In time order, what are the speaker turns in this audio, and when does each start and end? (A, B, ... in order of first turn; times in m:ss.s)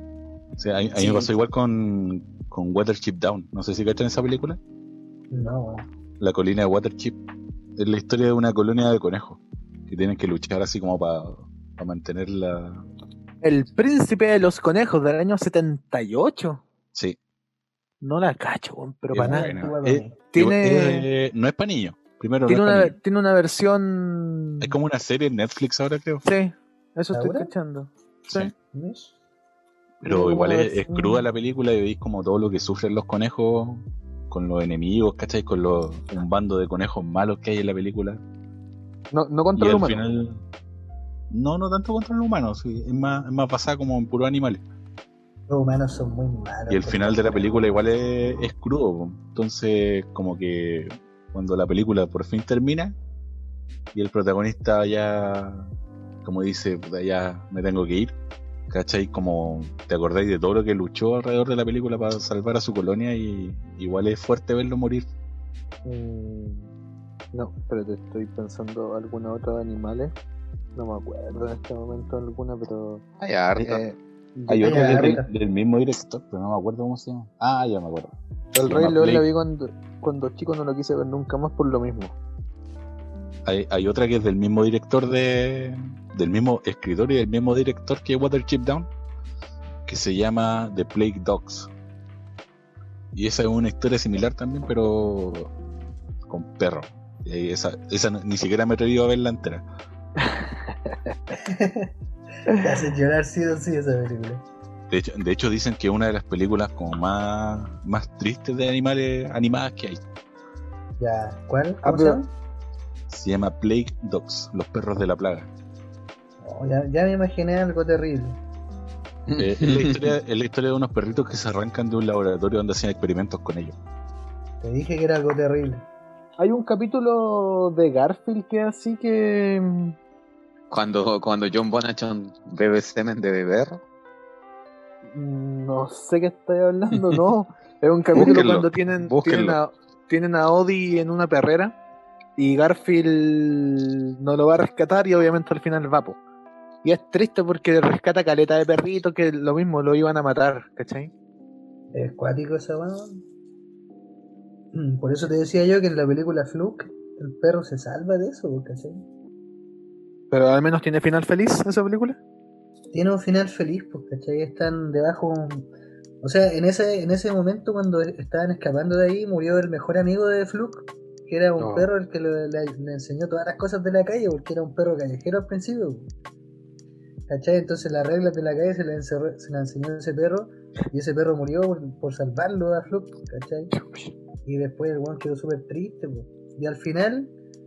0:00.6-0:04.6 A
0:01.0-0:01.3 B
0:05.3-0:05.9 C
0:06.2-0:07.2 A
0:07.8-0:12.9 A
0:13.4-0:16.6 B
0:18.0-0:19.7 B
0:19.1-0:23.0 A
0:19.2-0:20.2 C
0:20.3-0:21.1 B
0:22.5-0:24.8 B
0:24.6-0:26.2 A
0:26.2-0:28.5 B
0:27.1-0:27.5 C
0:28.7-0:29.2 C
0:30.0-0:38.2 A
0:30.0-0:31.3 B
0:39.1-0:40.0 B
0:39.6-0:40.4 A
0:41.3-0:44.6 A
0:45.5-0:47.6 C
0:46.7-0:53.0 A
0:53.9-0:55.7 A
0:56.2-0:58.1 A
0:58.7-1:05.1 A
1:05.8-1:06.7 B
1:07.3-1:10.1 B
1:10.8-1:13.0 B
1:13.2-1:13.8 D
1:13.7-1:15.2 B
1:14.5-1:19.3 A
1:14.6-1:15.3 C
1:18.5-1:22.2 B
1:23.5-1:28.9 A
1:29.9-1:31.7 A
1:33.1-1:35.5 A
1:36.3-1:39.6 A
1:40.2-1:41.1 B
1:41.4-1:41.9 C
1:42.5-1:44.4 C
1:44.9-1:50.0 A
1:51.0-1:52.3 C
1:51.8-1:52.2 B
1:53.1-1:55.5 A
1:56.4-1:58.4 C
1:59.3-2:00.2 D
1:59.4-2:03.8 A
2:04.6-2:05.9 C
2:06.4-2:10.0 B
2:10.7-2:13.8 D
2:15.0-2:21.8 B
2:18.1-2:19.6 D
2:22.4-2:26.2 B
2:26.8-2:31.1 B
2:31.9-2:33.2 C
2:34.7-2:39.0 C
2:40.3-2:42.2 B
2:42.9-2:45.7 C
2:46.2-2:56.1 C
2:51.6-2:51.9 B
2:57.3-3:03.7 C
3:03.8-3:04.1 B
3:04.4-3:07.3 C